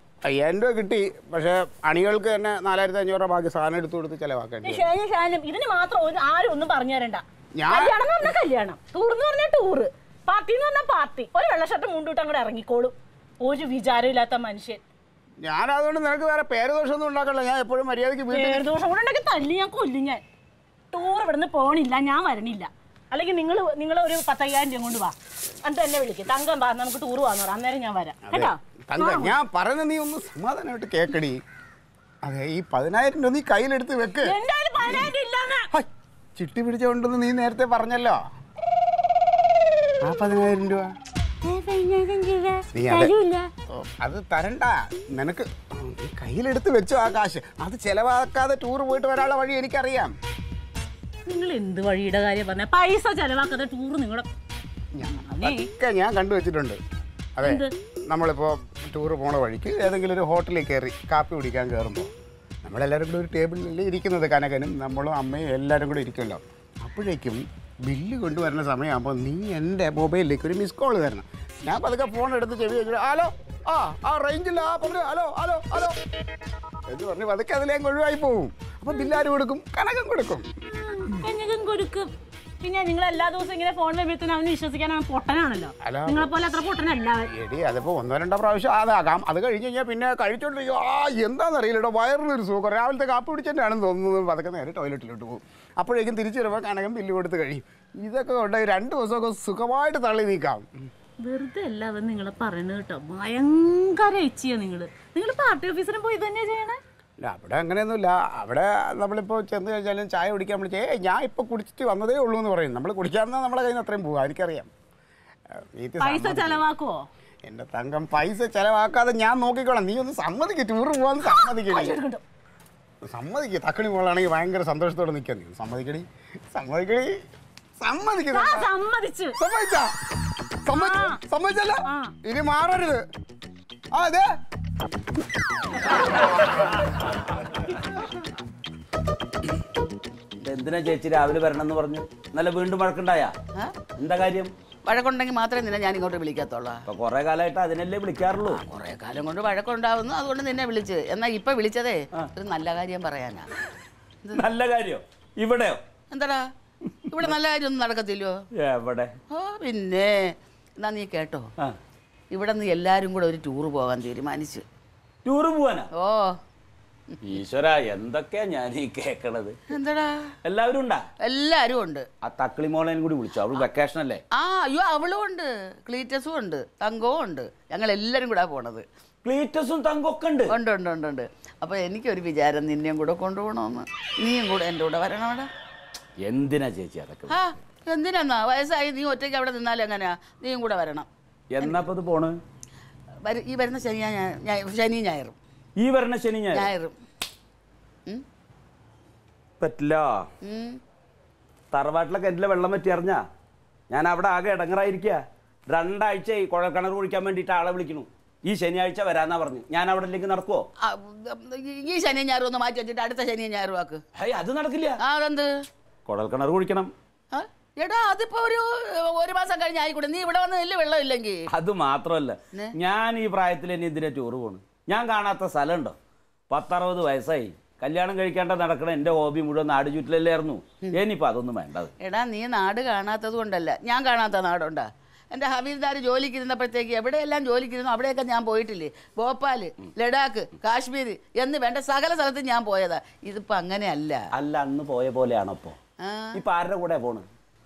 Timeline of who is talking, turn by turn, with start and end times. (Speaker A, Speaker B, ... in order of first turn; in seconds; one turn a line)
Speaker A: 0.2-4.8
Speaker B: 4.6-14.8
Speaker A: 7.5-8.0
Speaker A: 15.4-18.7
Speaker B: 18.3-20.2
Speaker B: 20.9-29.4
Speaker A: 28.3-31.4
Speaker A: 32.2-35.1
Speaker B: 34.2-35.7
Speaker A: 35.7-38.2
Speaker A: 40.0-40.9
Speaker B: 41.4-43.5
Speaker A: 42.7-43.1
Speaker A: 43.7-50.1
Speaker B: 51.3-54.3
Speaker A: 54.9-56.8
Speaker B: 55.1-55.7
Speaker A: 57.4-62.1
Speaker B: 57.4-57.7
Speaker A: 62.6-76.0
Speaker A: 76.9-80.5
Speaker B: 80.9-82.1
Speaker B: 82.6-87.3
Speaker A: 85.8-86.3
Speaker A: 87.3-100.9
Speaker B: 101.2-106.8
Speaker A: 107.2-114.7
Speaker A: 115.5-116.6
Speaker B: 116.0-117.0
Speaker A: 117.4-122.0
Speaker B: 121.2-122.2
Speaker A: 123.0-127.2
Speaker A: 127.8-128.7
Speaker B: 128.3-129.4
Speaker A: 129.4-129.9
Speaker A: 130.6-133.0
Speaker B: 130.7-131.2
Speaker B: 131.9-132.1
Speaker A: 133.9-134.3
Speaker C: 140.4-143.3
Speaker C: 144.0-144.5
Speaker D: 144.8-146.8
Speaker C: 146.8-148.6
Speaker D: 148.5-153.5
Speaker C: 154.3-155.8
Speaker D: 156.1-156.5
Speaker C: 156.9-157.3
Speaker D: 157.1-158.4
Speaker C: 158.6-159.1
Speaker D: 159.3-161.5
Speaker D: 162.3-164.6
Speaker C: 165.2-165.9
Speaker D: 165.9-166.4
Speaker C: 167.2-169.6
Speaker D: 169.7-170.3
Speaker C: 170.4-171.1
Speaker D: 171.2-172.1
Speaker C: 172.2-174.2
Speaker D: 174.3-178.8
Speaker C: 179.2-180.5
Speaker D: 180.5-185.5
Speaker C: 186.2-187.4
Speaker D: 187.3-191.1
Speaker C: 191.5-192.4
Speaker D: 193.2-195.3
Speaker C: 195.8-196.7
Speaker D: 196.5-196.9
Speaker C: 199.6-200.3
Speaker D: 200.4-200.8
Speaker C: 201.7-203.2
Speaker C: 203.9-210.7
Speaker D: 210.8-214.0
Speaker C: 214.2-215.0
Speaker D: 215.0-215.5
Speaker C: 216.1-216.9
Speaker D: 217.3-221.4
Speaker C: 221.5-225.9
Speaker C: 226.5-231.9
Speaker D: 232.0-244.2
Speaker C: 244.3-245.8
Speaker D: 246.0-246.4
Speaker C: 246.3-247.2